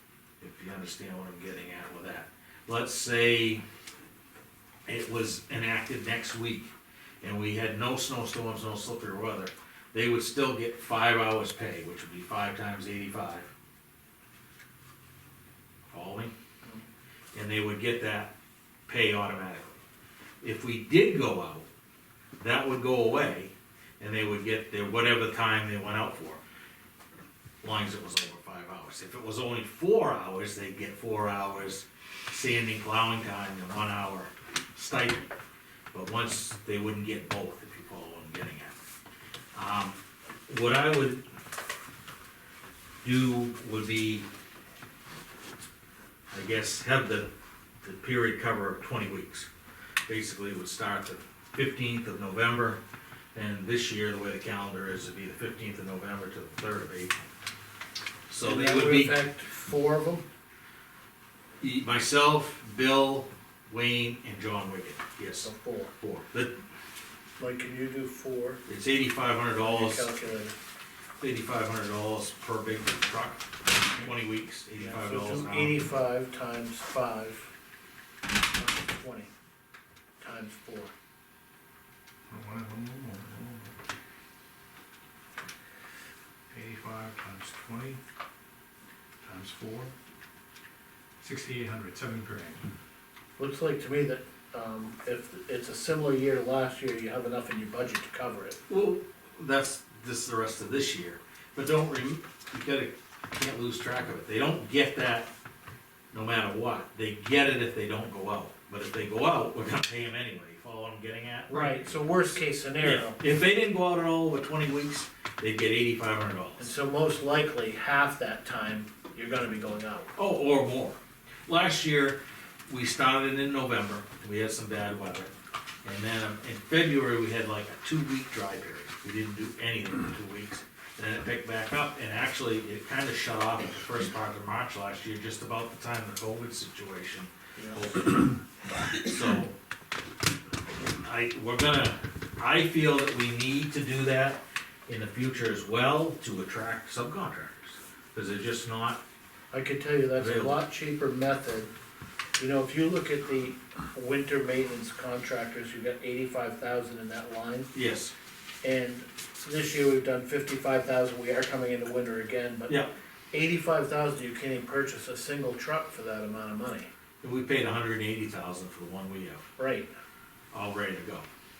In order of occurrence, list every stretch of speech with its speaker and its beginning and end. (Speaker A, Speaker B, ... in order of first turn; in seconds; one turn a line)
Speaker A: 0.4-3.6
Speaker A: 4.8-6.7
Speaker A: 7.2-13.5
Speaker A: 15.9-16.3
Speaker A: 17.3-18.3
Speaker A: 18.9-19.7
Speaker A: 20.4-21.6
Speaker A: 22.4-26.4
Speaker A: 27.6-35.3
Speaker A: 35.9-38.7
Speaker A: 39.5-41.2
Speaker A: 43.0-44.2
Speaker A: 46.3-47.3
Speaker A: 47.8-49.5
Speaker A: 50.1-52.8
Speaker A: 53.3-57.1
Speaker A: 58.3-59.2
Speaker B: 58.4-60.2
Speaker A: 61.6-66.5
Speaker B: 65.4-65.9
Speaker B: 67.4-68.6
Speaker A: 68.7-70.1
Speaker B: 69.6-70.5
Speaker A: 71.2-73.4
Speaker A: 74.0-75.8
Speaker B: 74.8-77.5
Speaker B: 78.5-79.3
Speaker B: 80.2-80.9
Speaker C: 82.3-83.7
Speaker C: 86.5-88.0
Speaker C: 89.2-89.9
Speaker C: 91.2-92.6
Speaker B: 93.4-98.6
Speaker A: 98.7-105.3
Speaker A: 106.1-111.8
Speaker B: 111.5-113.2
Speaker A: 112.8-116.7
Speaker B: 116.6-120.1
Speaker A: 120.2-125.3
Speaker A: 125.8-138.4
Speaker B: 137.6-137.8
Speaker A: 138.9-139.5
Speaker A: 140.8-149.0
Speaker B: 149.5-151.7
Speaker A: 150.2-150.6
Speaker B: 152.4-157.7
Speaker A: 157.7-158.1
Speaker B: 158.6-162.7
Speaker A: 162.7-162.9
Speaker B: 163.3-166.9
Speaker A: 167.2-169.4
Speaker B: 169.6-169.9
Speaker A: 170.5-171.2